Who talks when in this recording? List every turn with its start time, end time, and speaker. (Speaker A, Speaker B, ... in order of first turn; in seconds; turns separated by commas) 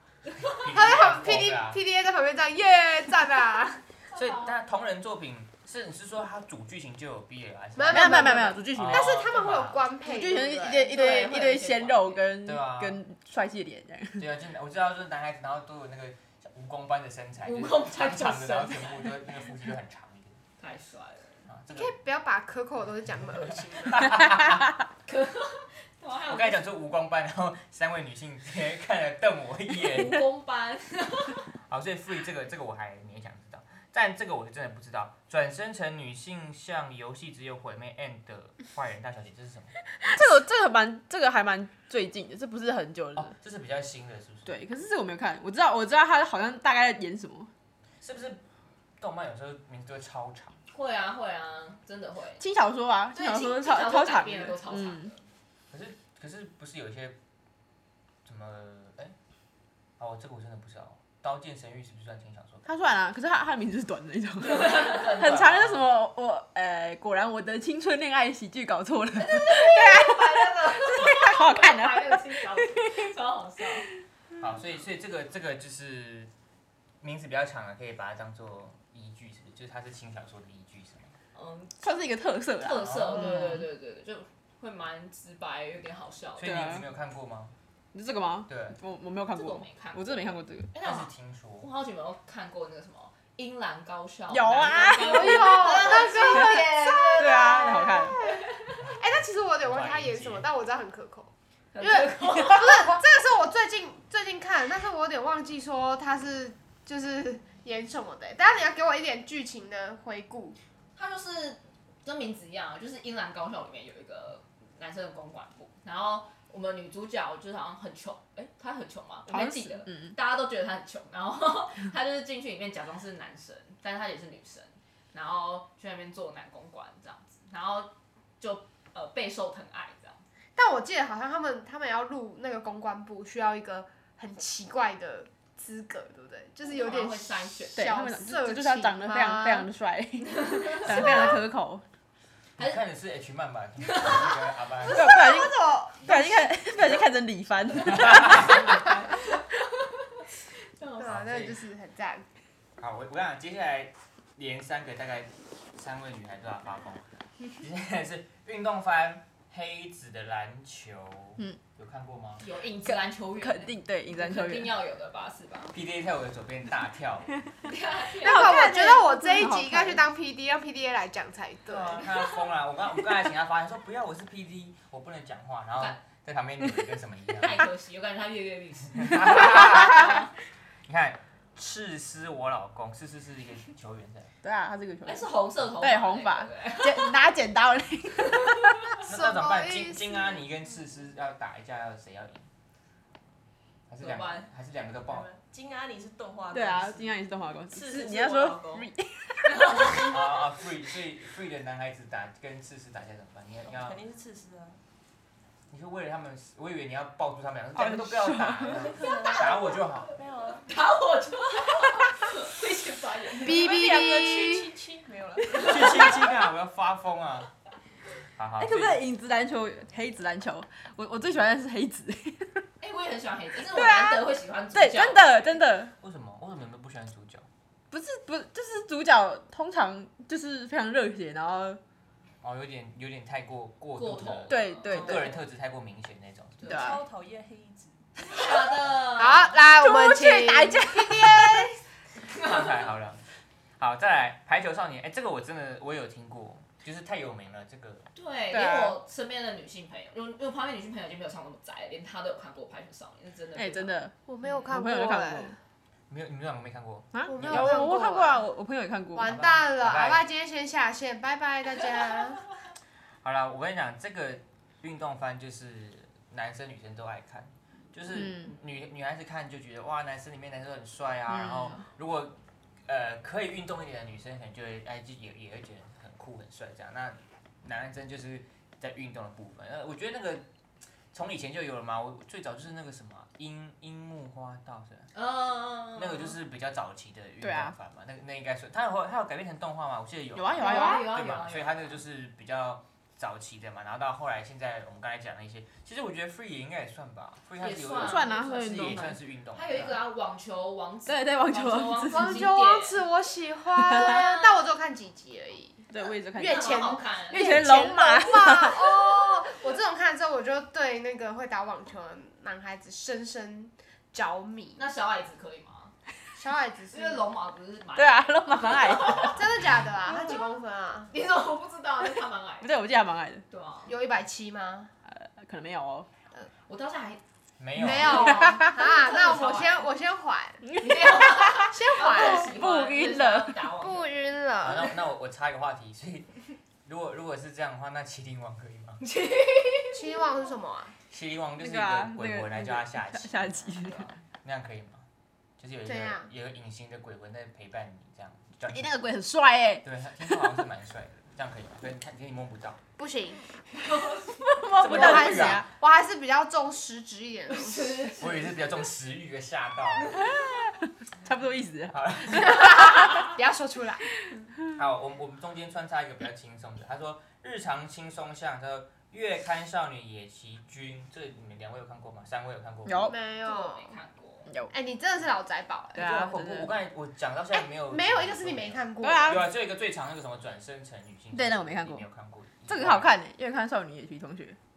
Speaker A: 0.5-1.8, Speaker B: 0.6-3.8, Speaker A: 4.1-9.9, Speaker C: 4.1-4.5, Speaker B: 7.8-10.9, Speaker D: 7.9-9.3, Speaker D: 10.0-14.3, Speaker C: 10.4-12.2, Speaker A: 12.4-13.0, Speaker A: 14.2-20.4, Speaker C: 17.4-19.2, Speaker C: 20.6-21.4, Speaker A: 21.5-22.0, Speaker B: 21.7-24.3, Speaker A: 23.4-24.8, Speaker C: 25.1-26.6, Speaker A: 26.3-30.2, Speaker C: 29.8-31.4, Speaker A: 31.7-39.8, Speaker D: 40.0-43.3, Speaker A: 43.2-44.6, Speaker D: 44.5-47.5, Speaker A: 48.0-48.4, Speaker A: 49.0-50.6, Speaker C: 50.7-52.4, Speaker D: 52.4-55.1, Speaker C: 53.1-55.2, Speaker A: 55.7-57.2, Speaker A: 58.2-59.2, Speaker A: 60.0-62.7, Speaker D: 62.7-73.1, Speaker A: 64.4-65.9, Speaker C: 69.2-73.9, Speaker A: 74.4-76.3, Speaker A: 77.0-81.1, Speaker C: 81.3-81.9, Speaker D: 81.8-83.6, Speaker C: 82.5-86.7, Speaker A: 82.8-83.4, Speaker A: 86.4-87.5, Speaker D: 86.4-86.8, Speaker D: 87.9-90.7, Speaker A: 88.5-88.8, Speaker C: 89.3-91.1, Speaker A: 90.8-91.7, Speaker C: 91.6-98.8, Speaker D: 94.3-98.2, Speaker B: 95.0-110.6, Speaker A: 98.8-100.5, Speaker C: 101.7-103.0, Speaker C: 111.0-130.2, Speaker D: 119.3-120.2, Speaker B: 130.6-139.7, Speaker C: 136.6-137.9, Speaker D: 137.8-141.8, Speaker C: 140.3-141.4, Speaker B: 140.8-141.4, Speaker A: 142.6-145.1, Speaker C: 143.8-144.3, Speaker B: 144.9-146.7, Speaker D: 144.9-148.8, Speaker A: 147.9-148.9, Speaker C: 148.2-150.2, Speaker C: 150.8-151.2, Speaker B: 151.0-152.3, Speaker A: 151.0-151.6, Speaker A: 152.8-162.4, Speaker C: 162.4-165.7, Speaker D: 162.8-164.7, Speaker A: 165.7-167.3, Speaker C: 167.6-168.6, Speaker D: 168.2-170.1, Speaker B: 168.2-172.1, Speaker A: 171.7-177.7, Speaker C: 177.4-180.3, Speaker A: 178.9-180.2, Speaker A: 180.9-184.3, Speaker D: 184.4-188.9, Speaker C: 185.1-187.2, Speaker C: 188.2-188.9, Speaker A: 189.0-192.5, Speaker B: 189.1-190.4, Speaker A: 193.9-195.3, Speaker C: 194.0-194.5, Speaker E: 195.1-197.2, Speaker D: 196.5-200.1, Speaker E: 197.7-198.9, Speaker C: 199.4-200.2, Speaker A: 200.0-204.0, Speaker E: 203.7-204.8, Speaker A: 205.7-210.1, Speaker D: 207.8-208.9, Speaker E: 208.7-210.7, Speaker C: 209.2-209.6, Speaker C: 210.6-213.7, Speaker B: 213.4-214.7, Speaker E: 213.4-216.2, Speaker A: 215.5-217.5, Speaker A: 218.4-219.0, Speaker D: 218.6-222.7, Speaker C: 222.8-225.6, Speaker D: 223.7-225.9, Speaker A: 226.0-227.5, Speaker D: 227.9-231.8, Speaker A: 232.4-236.6, Speaker C: 234.0-235.4, Speaker D: 234.5-235.3, Speaker C: 236.6-236.9, Speaker E: 236.6-238.4, Speaker D: 236.7-237.0, Speaker C: 238.3-239.6, Speaker B: 239.2-241.7, Speaker D: 239.8-241.7, Speaker C: 242.2-242.9, Speaker A: 242.3-243.2, Speaker A: 243.8-248.1, Speaker C: 248.2-254.7, Speaker D: 248.5-249.0, Speaker D: 253.6-254.1, Speaker B: 254.3-255.6, Speaker D: 254.7-255.6, Speaker A: 256.1-257.9, Speaker D: 257.1-259.4, Speaker B: 257.3-258.4, Speaker B: 259.1-262.4, Speaker A: 259.2-260.2, Speaker A: 263.2-280.5, Speaker D: 268.1-268.5, Speaker D: 271.3-271.8, Speaker A: 281.1-285.1, Speaker C: 285.1-286.4, Speaker A: 285.9-300.0, Speaker D: 287.4-287.8, Speaker D: 290.4-291.1, Speaker C: 290.6-292.0, Speaker C: 297.6-303.1, Speaker D: 298.0-299.2, Speaker D: 301.1-302.5, Speaker B: 302.1-314.9, Speaker D: 303.8-304.2, Speaker C: 303.9-304.6, Speaker D: 305.9-309.4, Speaker C: 306.4-307.6, Speaker C: 314.8-315.9, Speaker B: 316.4-317.2, Speaker C: 316.9-319.5, Speaker D: 318.0-319.5, Speaker B: 319.1-321.1, Speaker C: 320.1-320.4, Speaker C: 321.1-322.7, Speaker D: 322.6-323.4, Speaker C: 323.5-324.0, Speaker B: 323.9-324.9, Speaker D: 325.1-326.1, Speaker C: 326.7-327.2, Speaker A: 327.6-328.5, Speaker B: 327.8-330.7, Speaker C: 327.8-329.9, Speaker D: 328.2-328.8, Speaker D: 330.6-333.7, Speaker C: 330.7-334.1, Speaker B: 331.7-332.5, Speaker B: 333.8-335.0, Speaker A: 334.6-336.3, Speaker A: 336.9-339.0, Speaker C: 339.0-340.1, Speaker B: 339.9-340.9, Speaker A: 341.1-345.1, Speaker D: 341.6-344.1, Speaker A: 345.6-348.9, Speaker B: 345.9-346.3, Speaker D: 348.7-350.6, Speaker A: 349.8-352.8, Speaker B: 353.0-353.4, Speaker C: 353.7-354.5, Speaker D: 354.4-355.7, Speaker A: 354.7-355.6, Speaker B: 354.8-358.2, Speaker C: 357.5-358.5, Speaker A: 358.2-360.2, Speaker C: 360.1-360.4, Speaker D: 360.3-363.2, Speaker A: 361.9-363.0, Speaker B: 362.4-364.1, Speaker A: 364.8-373.1, Speaker D: 372.9-373.1, Speaker B: 373.0-374.0, Speaker C: 373.4-374.5, Speaker B: 374.7-376.1, Speaker D: 375.9-376.7, Speaker A: 376.0-383.1, Speaker B: 377.8-379.5, Speaker D: 379.0-379.5, Speaker D: 381.3-382.1, Speaker D: 382.7-384.6